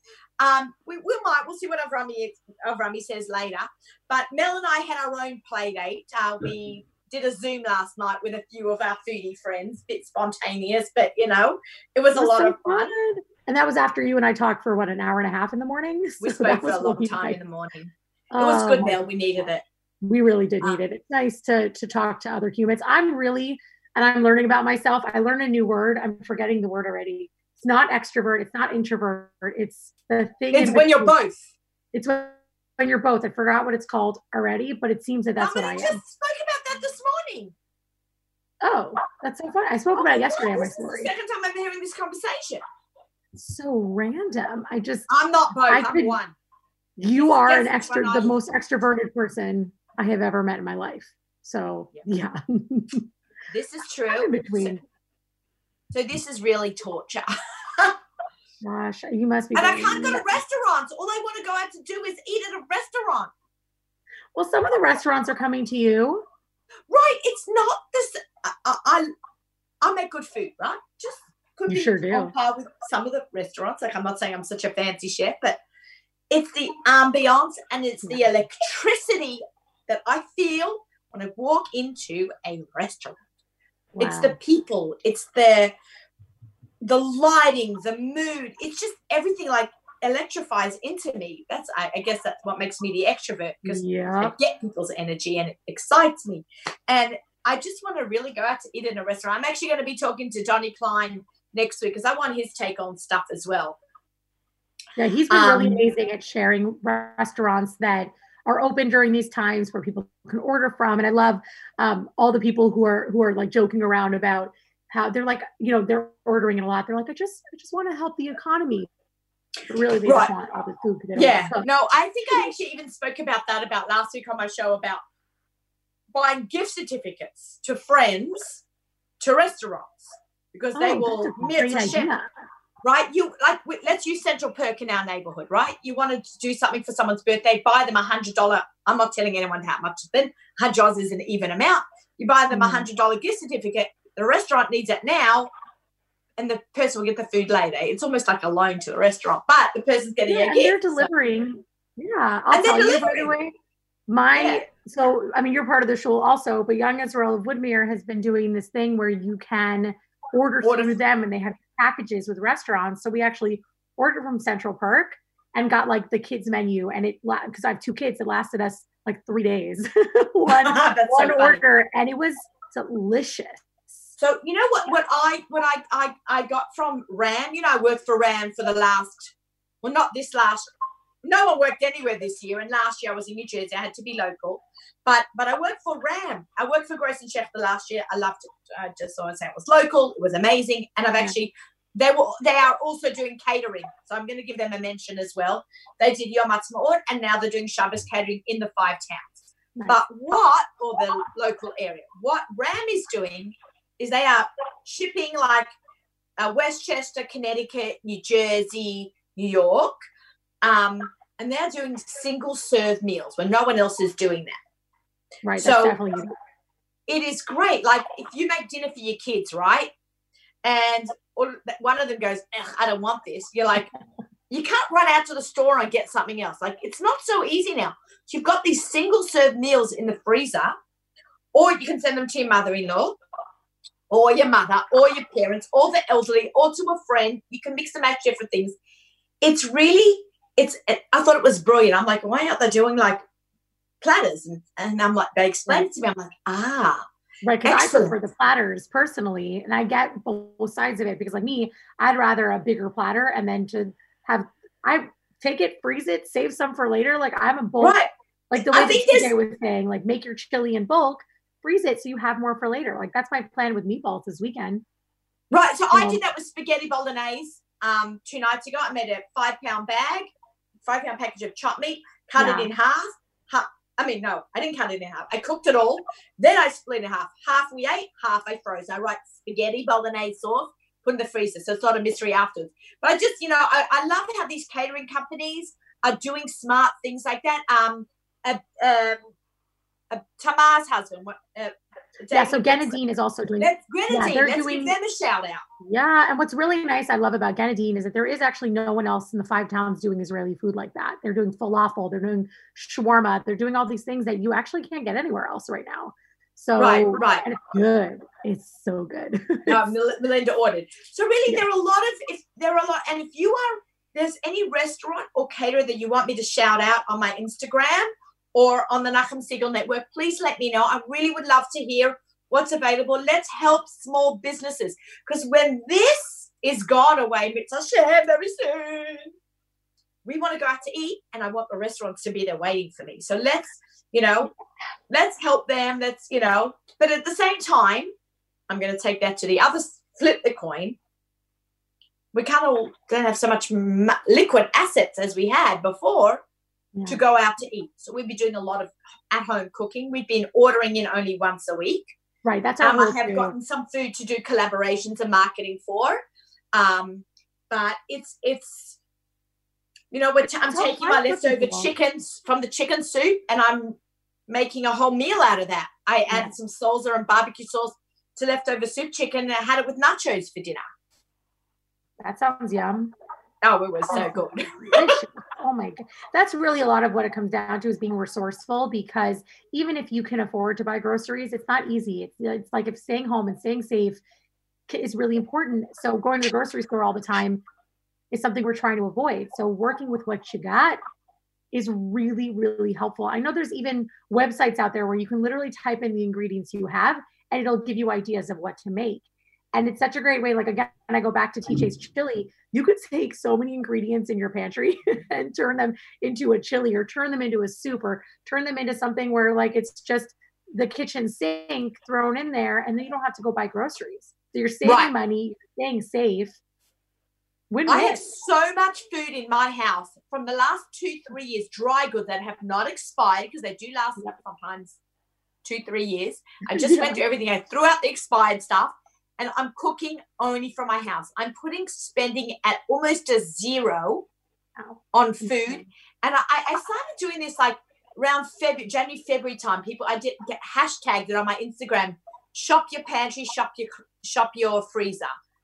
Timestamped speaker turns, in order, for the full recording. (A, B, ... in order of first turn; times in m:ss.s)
0:00.4-0:12.9 A
0:12.1-0:17.4 B
0:16.2-0:19.6 A
0:18.3-0:19.1 B
0:20.0-0:31.2 B
0:30.5-0:31.4 A
0:31.9-0:36.0 B
0:35.4-0:37.5 A
0:38.6-0:41.1 B
0:39.9-0:42.6 A
0:43.4-0:45.1 B
0:45.1-0:46.4 A
0:45.7-0:46.2 B
0:47.0-0:53.1 B
0:47.2-0:48.4 A
0:53.5-0:54.8 A
0:54.1-0:54.8 B
0:55.9-0:58.0 A
0:58.6-1:00.4 B
0:59.6-1:03.3 A
1:04.4-1:06.2 B
1:06.9-1:09.1 A
1:09.8-1:15.6 A
1:11.7-1:12.3 B
1:16.3-1:23.2 A
1:23.9-1:24.4 B
1:24.0-1:25.7 A
1:26.8-1:43.8 A
1:33.6-1:34.3 B
1:45.0-1:58.9 B
1:45.3-1:45.8 A
1:59.7-2:01.7 B
2:00.0-2:00.3 A
2:01.2-2:05.0 A
2:06.1-2:08.6 A
2:09.2-2:12.1 A
2:10.8-2:12.3 B
2:12.8-2:25.5 A
2:22.5-2:22.9 B
2:26.4-2:31.1 A
2:30.3-2:33.6 B
2:32.5-2:33.3 A
2:34.1-2:53.7 B
2:34.4-2:34.6 A
2:40.6-2:41.0 A
2:50.5-2:51.6 A
2:54.2-3:00.7 A
3:01.2-3:25.7 A
3:26.4-3:29.9 A
3:30.6-3:34.6 A
3:35.4-3:36.4 B
3:35.6-3:36.0 A
3:37.1-3:39.9 A
3:40.6-3:43.9 A
3:44.5-3:50.7 A
3:51.5-3:53.2 A
3:54.1-3:58.8 A
3:59.4-4:03.2 A
4:04.0-4:07.0 A
4:07.4-4:18.0 B
4:07.6-4:08.2 A
4:17.8-4:19.3 A
4:18.5-4:24.8 B
4:25.5-4:30.3 A
4:25.9-4:26.2 B
4:30.8-4:49.2 A
4:32.4-4:32.7 B
4:50.1-4:53.0 A
4:52.3-4:55.0 B
4:53.6-4:55.6 A
4:55.8-5:09.8 B
5:06.8-5:07.4 A
5:09.7-5:29.3 A
5:30.2-5:34.5 A
5:35.1-5:38.1 A
5:38.7-5:41.0 A
5:42.3-5:46.4 A
5:47.0-5:47.2 B
5:47.1-5:52.1 A
5:52.4-5:53.6 B
5:52.8-5:56.2 A
5:56.7-5:59.0 A
6:00.1-6:04.0 A
6:00.6-6:01.9 B
6:04.5-6:10.8 A
6:12.2-6:13.1 B
6:13.6-6:15.1 A
6:14.1-6:14.4 B
6:14.9-6:24.2 B
6:24.9-6:27.6 B
6:28.3-6:31.0 B
6:31.7-6:56.6 B
6:54.8-6:55.1 A
6:57.7-6:58.2 B
6:57.9-7:05.0 A
7:05.6-7:14.3 A
7:06.7-7:07.2 B
7:14.8-7:15.9 B
7:15.1-7:25.3 A